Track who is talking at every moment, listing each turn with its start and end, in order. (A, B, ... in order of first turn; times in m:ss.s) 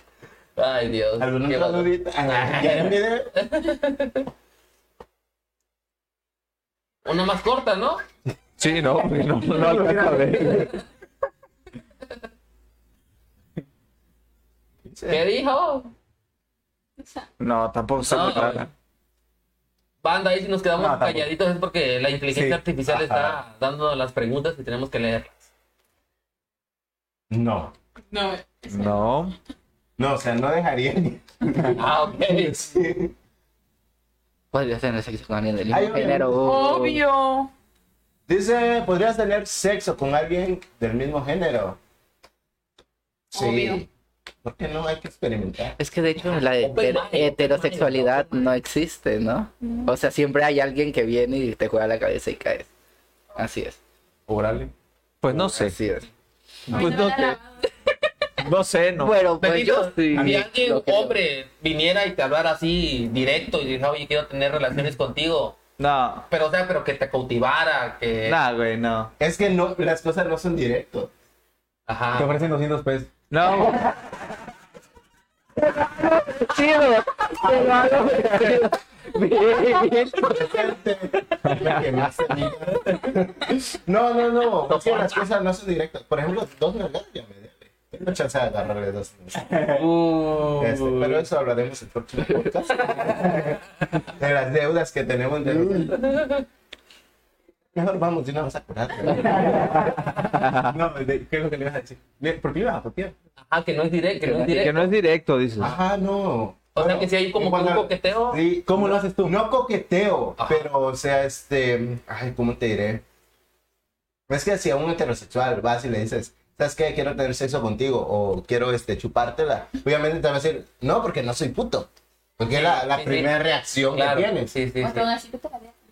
0:00.6-0:04.3 A
0:01.2-0:03.3 B
0:07.0-0:08.0 A
0:08.6-0:10.7 C
0:09.8-0:10.1 B
0:14.9-0:15.2 B
0:15.1-0:15.9 A
0:17.0-0:17.3 D
0:17.4-0:18.7 C
0:18.0-0:18.7 A
0:20.0-0:25.5 A
0:20.8-0:21.3 E
0:22.3-0:22.6 E
0:22.9-0:23.4 B
0:27.3-0:27.7 B
0:28.1-0:29.0 D
0:28.7-0:29.4 C
0:30.0-0:33.1 B
0:31.8-0:32.6 A
0:34.5-0:37.0 F
0:35.7-0:36.6 B
0:36.4-0:37.5 D
0:38.3-0:41.8 B
0:43.3-0:43.9 B
0:43.3-0:43.8 D
0:44.4-0:45.8 B
0:45.8-0:52.7 F
0:46.6-0:48.6 A
0:49.6-0:49.9 D
0:53.4-0:53.8 F
0:54.3-0:54.7 E
0:55.2-0:55.8 C
0:55.3-0:56.1 F
0:56.7-0:57.4 C
0:56.7-0:57.4 D
0:58.4-0:59.2 C
0:59.0-1:01.2 F
0:59.4-1:05.6 A
1:00.2-1:00.5 E
1:05.8-1:06.3 C
1:06.3-1:08.4 A
1:08.2-1:09.1 C
1:09.2-1:11.1 B
1:11.9-1:12.3 A
1:12.2-1:13.1 E
1:13.3-1:13.9 C
1:15.6-1:20.6 F
1:17.4-1:18.6 C
1:20.2-1:29.5 B
1:21.4-1:21.8 C
1:24.7-1:25.2 A
1:29.4-1:31.2 E
1:29.8-1:30.9 A
1:30.6-1:36.2 B
1:35.4-1:35.9 E
1:36.0-1:36.4 A
1:37.7-1:39.7 B
1:39.1-1:43.1 E
1:40.2-1:40.8 C
1:43.5-1:44.9 A
1:44.5-1:45.8 C
1:45.6-1:53.0 B
1:46.8-1:48.4 A
1:48.7-1:49.4 E
1:50.4-1:50.7 A
1:54.3-2:04.6 B
2:02.5-2:03.4 A
2:03.9-2:05.1 A
2:04.8-2:05.7 D